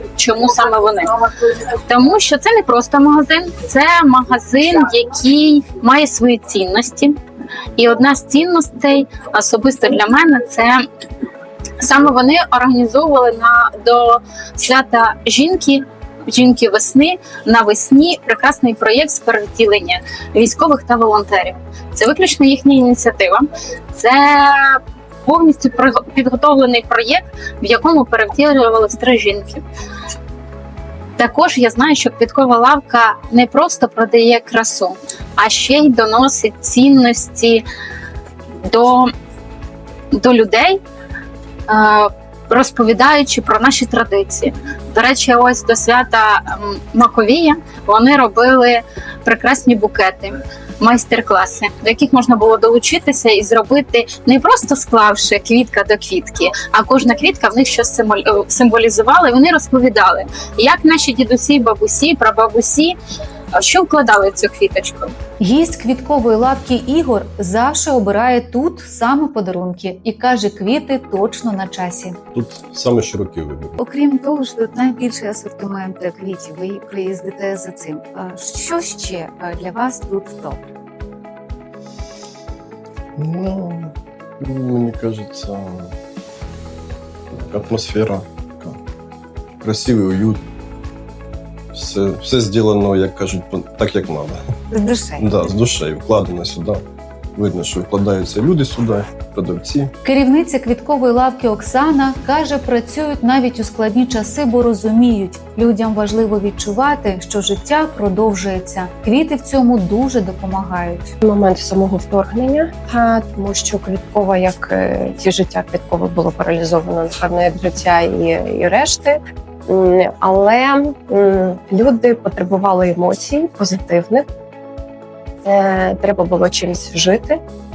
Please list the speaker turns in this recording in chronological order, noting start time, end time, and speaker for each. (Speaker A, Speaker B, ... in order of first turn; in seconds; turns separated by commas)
Speaker A: 0.2-7.2, Speaker A: 7.8-11.2, Speaker A: 11.8-29.6, Speaker A: 31.2-37.6, Speaker A: 38.7-39.1, Speaker A: 40.1-40.8, Speaker A: 41.7-63.0, Speaker A: 63.6-65.1, Speaker B: 65.4-72.2, Speaker C: 72.3-73.8, Speaker B: 73.8-80.7, Speaker C: 83.2-85.9, Speaker C: 87.3-88.8, Speaker C: 89.6-90.4, Speaker C: 91.7-94.4, Speaker B: 94.7-95.3, Speaker C: 95.2-96.8, Speaker C: 97.4-99.9, Speaker B: 100.0-111.1, Speaker D: 111.2-124.2, Speaker D: 125.4-127.4